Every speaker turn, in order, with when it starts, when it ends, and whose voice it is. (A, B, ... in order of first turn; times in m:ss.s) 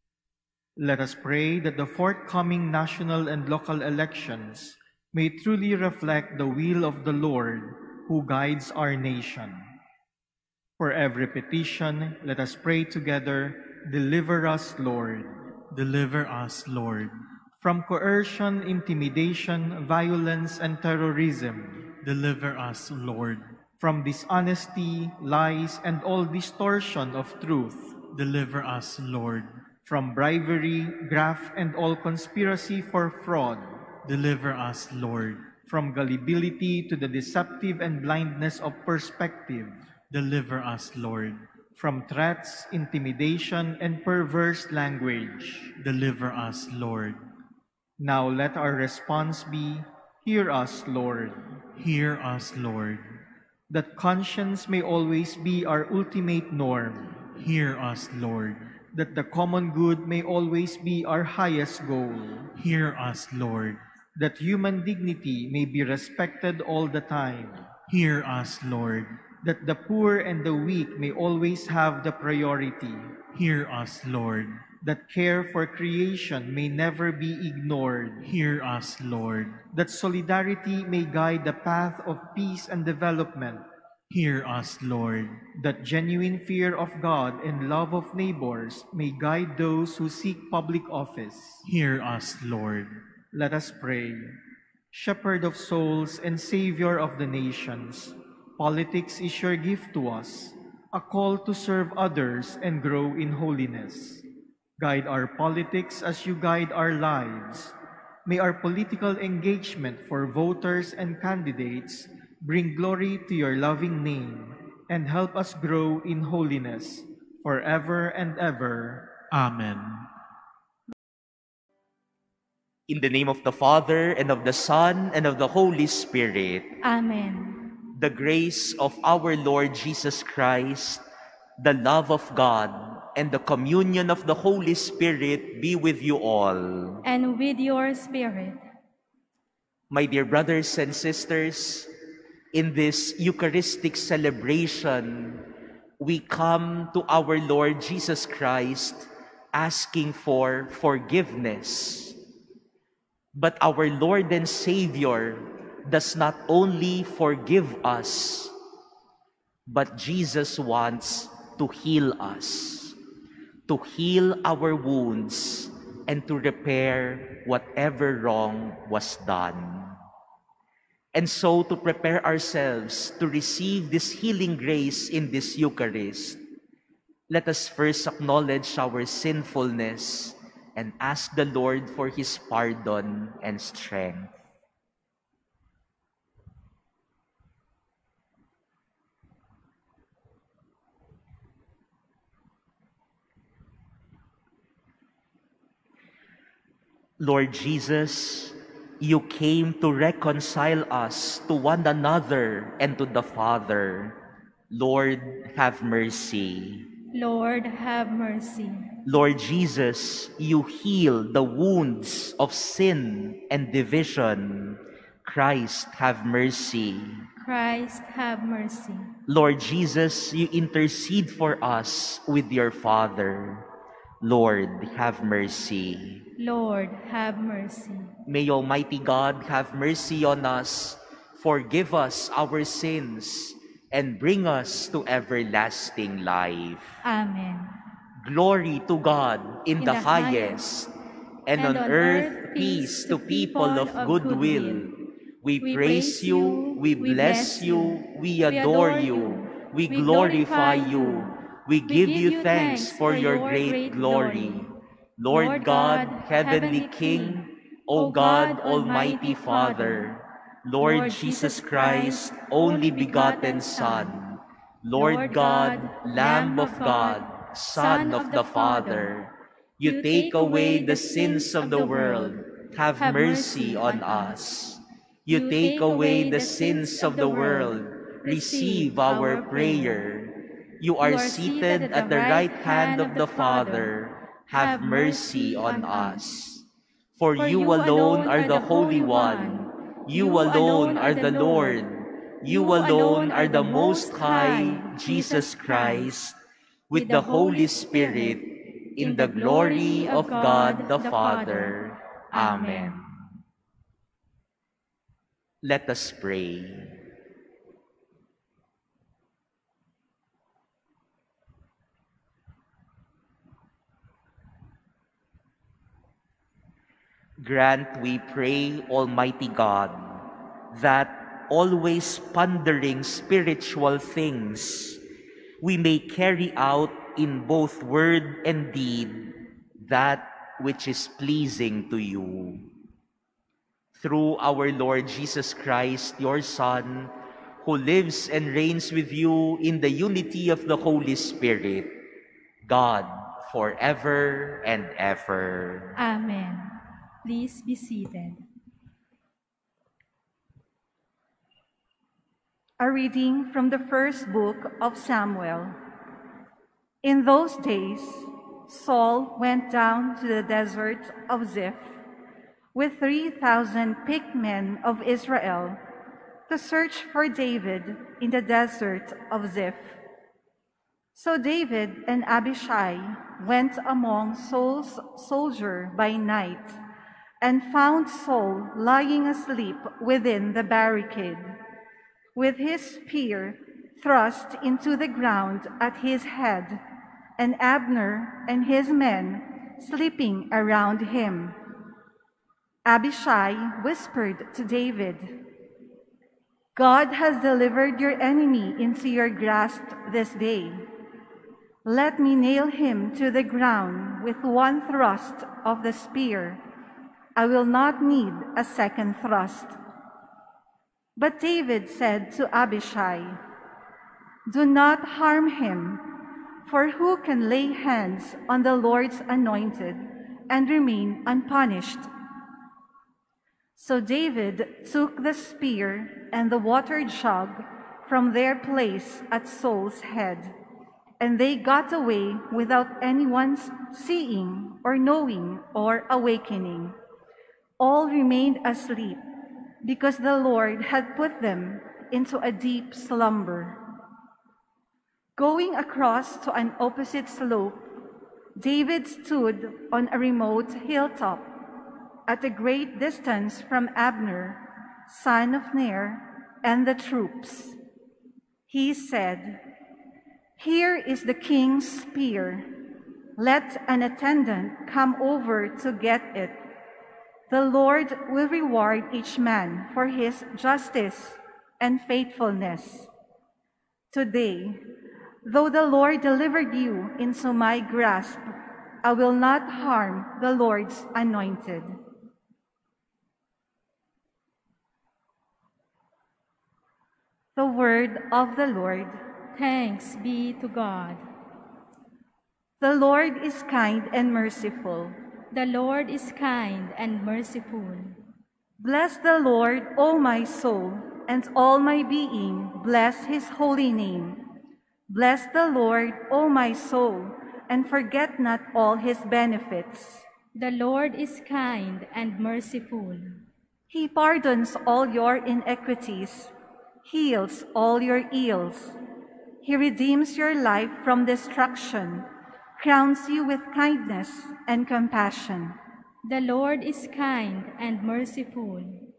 0:00.8-0:09.6 A
0:10.8-0:15.3 A
0:15.7-0:17.1 B
0:17.6-0:21.9 A
0:22.0-0:23.5 B
0:23.8-0:27.9 A
0:28.1-0:29.6 B
0:29.8-0:33.8 A
0:34.0-0:35.5 B
0:35.7-0:39.8 A
0:40.1-0:41.4 B
0:41.8-0:45.7 A
0:45.8-0:47.2 B
0:48.0-0:51.5 A
0:51.8-0:53.0 B
0:53.7-0:57.2 A
0:57.3-0:58.7 B
0:58.9-1:02.5 A
1:02.5-1:03.8 B
1:04.1-1:07.7 A
1:07.9-1:09.2 B
1:09.4-1:13.1 A
1:13.3-1:14.6 B
1:14.8-1:18.2 A
1:18.2-1:19.6 B
1:19.7-1:23.6 A
1:24.1-1:25.4 B
1:25.6-1:31.6 A
1:31.6-1:32.9 B
1:33.3-1:34.3 A
1:34.9-1:44.2 A
1:44.8-1:47.7 A
1:48.2-1:59.2 A
1:59.3-2:00.1 B
2:02.9-2:06.7 C
2:06.8-2:07.6 D
2:08.0-2:11.0 C
2:11.6-2:17.0 C
2:17.0-2:18.6 D
2:19.9-2:21.9 C
2:22.5-2:25.4 C
2:26.0-2:32.2 C
2:33.3-2:38.5 C
2:39.7-2:43.0 C
2:43.7-2:50.0 C
2:51.1-2:56.4 C
2:57.3-3:04.4 C
3:17.2-3:24.2 C
3:24.7-3:26.9 C
3:27.1-3:28.9 D
3:29.0-3:37.2 C
3:37.4-3:39.1 D
3:39.3-3:43.7 C
3:44.2-3:46.2 C
3:46.4-3:48.1 D
3:48.3-3:57.0 C
3:57.0-3:57.8 D
3:58.2-4:00.9 C
3:59.8-4:00.6 D
4:01.4-4:56.4 C
4:01.6-4:04.9 D
4:05.6-4:11.3 D
4:11.9-4:14.7 D
4:15.3-4:20.1 D
4:20.8-4:24.2 D
4:25.0-4:29.1 D
4:29.8-4:32.4 D
4:33.0-4:34.4 D
4:35.3-4:40.0 D
4:41.0-4:43.9 D
4:44.5-4:46.2 D
4:47.4-4:51.8 D
4:52.4-4:56.1 D
4:56.9-5:03.2 C
4:56.9-4:58.4 D
4:59.0-5:01.8 D
5:02.3-5:03.0 D
5:05.6-5:06.9 C
5:17.4-5:25.0 C
5:25.6-5:32.6 C
5:33.9-5:41.9 C
5:42.6-5:45.9 C
5:46.0-5:48.4 D
5:52.8-5:55.8 E
5:57.0-6:01.9 E
6:02.7-6:05.8 E
6:06.5-6:10.0 E
6:11.1-6:16.8 E
6:17.4-6:21.5 E
6:22.4-6:26.8 E
6:27.4-6:31.6 E
6:32.8-6:35.3 E
6:36.7-6:40.8 E
6:41.8-6:46.6 E
6:47.4-6:49.8 E
6:51.2-6:53.4 E
6:54.5-6:56.0 E
6:56.6-7:02.1 E
7:03.8-7:10.5 E
7:11.2-7:17.0 E
7:17.8-7:19.2 E
7:19.8-7:23.8 E
7:25.4-7:27.9 E
7:28.6-7:31.5 E
7:32.3-7:37.8 E
7:38.7-7:39.6 E
7:40.6-7:42.6 E
7:43.4-7:46.6 E
7:47.5-7:53.1 E
7:54.1-7:54.8 E
7:55.4-7:58.4 E
7:59.0-8:02.0 E
8:07.6-8:09.2 E
8:09.5-8:11.2 D
8:12.8-8:15.2 E
8:15.5-8:18.1 D
8:18.8-8:24.4 E
8:25.1-8:30.2 E
8:30.6-8:33.3 D
8:33.9-8:36.5 E
8:37.0-8:39.0 E
8:39.6-8:42.3 E
8:42.8-8:45.8 E
8:46.2-8:49.0 D